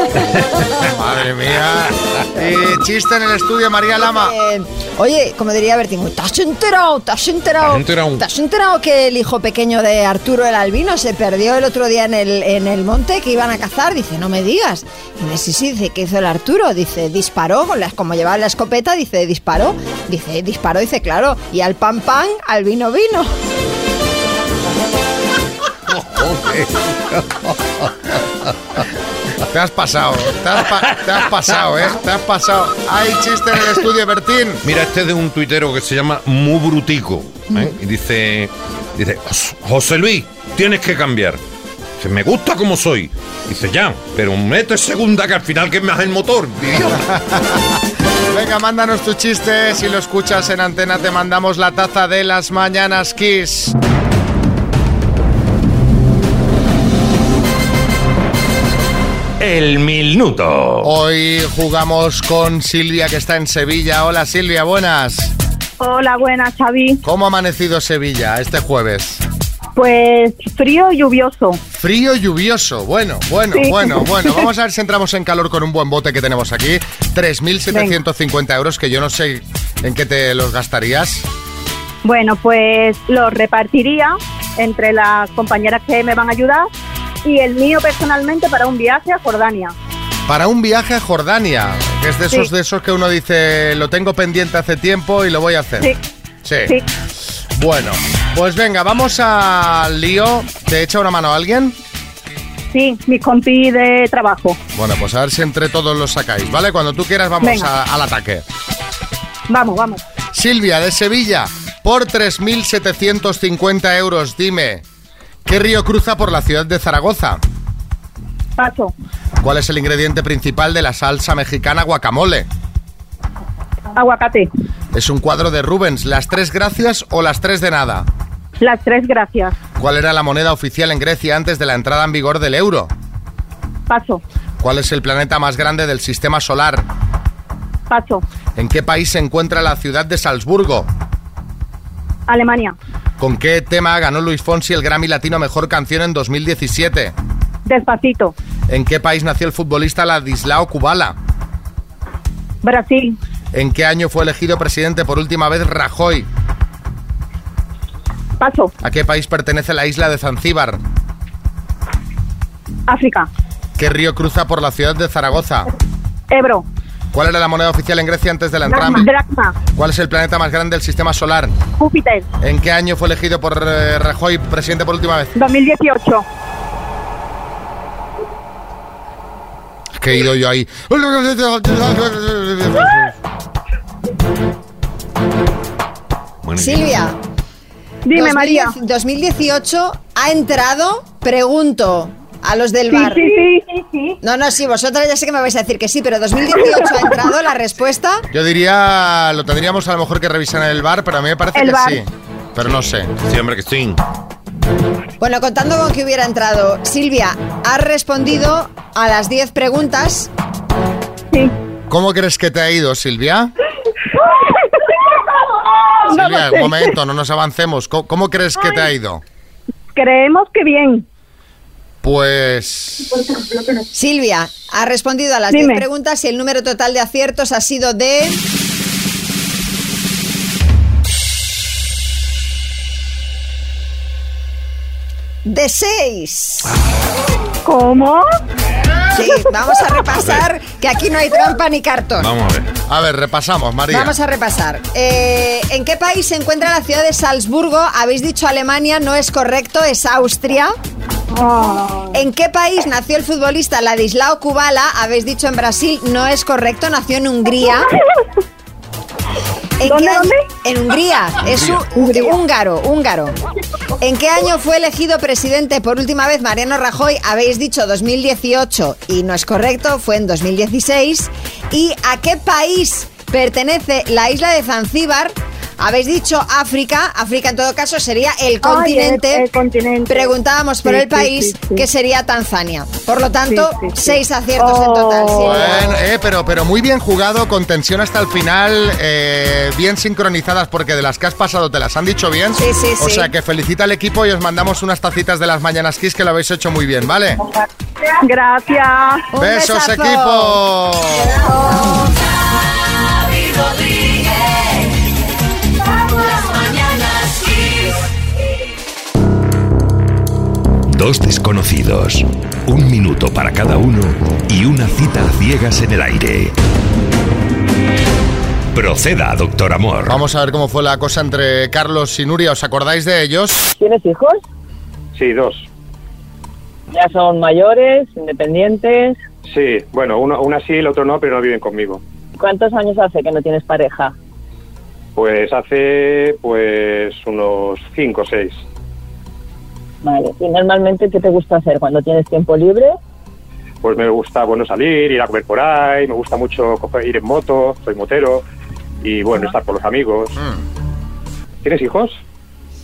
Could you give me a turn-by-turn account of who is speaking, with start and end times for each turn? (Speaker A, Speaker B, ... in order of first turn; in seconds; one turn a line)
Speaker A: 0.8-4.3
Speaker B: 4.0-23.3
Speaker C: 7.6-8.2
Speaker A: 29.5-34.6
Speaker C: 34.6-41.4
Speaker C: 42.0-47.0
Speaker A: 47.1-47.6
Speaker A: 48.3-53.7
Speaker C: 59.4-60.7
Speaker A: 60.8-65.3
Speaker D: 65.8-67.0
Speaker A: 67.0-69.2
Speaker D: 69.8-71.6
Speaker A: 71.7-81.3
Speaker D: 73.5-74.4
Speaker D: 82.0-86.7
Speaker D: 87.2-89.7
Speaker A: 90.3-95.9
Speaker A: 96.5-96.8
Speaker A: 97.6-101.8
Speaker D: 102.7-104.6
Speaker A: 104.8-108.4
Speaker D: 107.4-107.7
Speaker D: 109.5-110.0
Speaker A: 110.3-114.8
Speaker A: 115.5-117.4
Speaker D: 118.6-118.9
Speaker A: 119.4-122.5
Speaker D: 124.0-124.5
Speaker A: 124.9-128.1
Speaker D: 128.6-129.6
Speaker A: 129.8-132.9
Speaker D: 133.9-134.2
Speaker A: 134.6-136.9
Speaker D: 137.9-138.2
Speaker A: 138.6-140.9
Speaker D: 142.3-142.8
Speaker A: 143.2-147.2
Speaker D: 147.7-148.3
Speaker A: 148.7-151.2
Speaker D: 152.6-153.2
Speaker A: 153.5-156.3
Speaker D: 158.4-158.7
Speaker A: 158.8-160.8
Speaker D: 162.9-163.3
Speaker A: 163.8-165.7
Speaker D: 166.3-166.7
Speaker A: 167.1-169.1
Speaker D: 168.7-169.6
Speaker A: 169.8-171.6
Speaker D: 171.8-172.3
Speaker A: 172.4-175.3
Speaker D: 175.3-176.2
Speaker A: 180.0-183.1
Speaker B: 186.6-187.2
Speaker D: 188.1-188.7
Speaker B: 188.1-193.4
Speaker D: 192.9-194.2
Speaker B: 194.2-198.2
Speaker D: 196.8-197.2
Speaker A: 198.3-203.1
Speaker D: 201.6-202.0
Speaker C: 203.2-204.0
Speaker B: 205.2-210.3
Speaker A: 211.9-213.5
Speaker D: 215.9-216.9
Speaker A: 216.1-219.2
Speaker D: 219.9-221.1
Speaker A: 222.0-223.1
Speaker B: 223.9-228.4
Speaker D: 225.5-225.8
Speaker B: 235.4-236.7
Speaker D: 237.7-238.2
Speaker B: 239.2-242.3
Speaker C: 242.2-242.7
Speaker A: 242.9-244.1
Speaker B: 243.9-250.7
Speaker D: 251.3-252.2
Speaker B: 252.1-257.9
Speaker B: 259.8-263.3
Speaker D: 259.9-260.4
Speaker D: 261.9-262.4
Speaker B: 264.0-279.5
Speaker D: 278.6-280.3
Speaker B: 280.1-285.9
Speaker D: 280.9-281.9
Speaker D: 283.5-285.7
Speaker A: 285.4-297.4
Speaker B: 292.6-293.3
Speaker D: 298.2-299.2
Speaker B: 299.3-300.6
Speaker A: 299.4-301.5
Speaker E: 310.9-316.6
Speaker E: 318.7-320.2
Speaker A: 320.1-323.7
Speaker F: 323.8-324.4
Speaker G: 325.1-325.7
Speaker F: 326.9-329.2
Speaker G: 329.5-332.0
Speaker F: 332.4-334.1
Speaker G: 335.2-338.6
Speaker F: 340.0-343.0
Speaker G: 343.8-348.4
Speaker G: 349.0-350.4
Speaker G: 351.6-352.2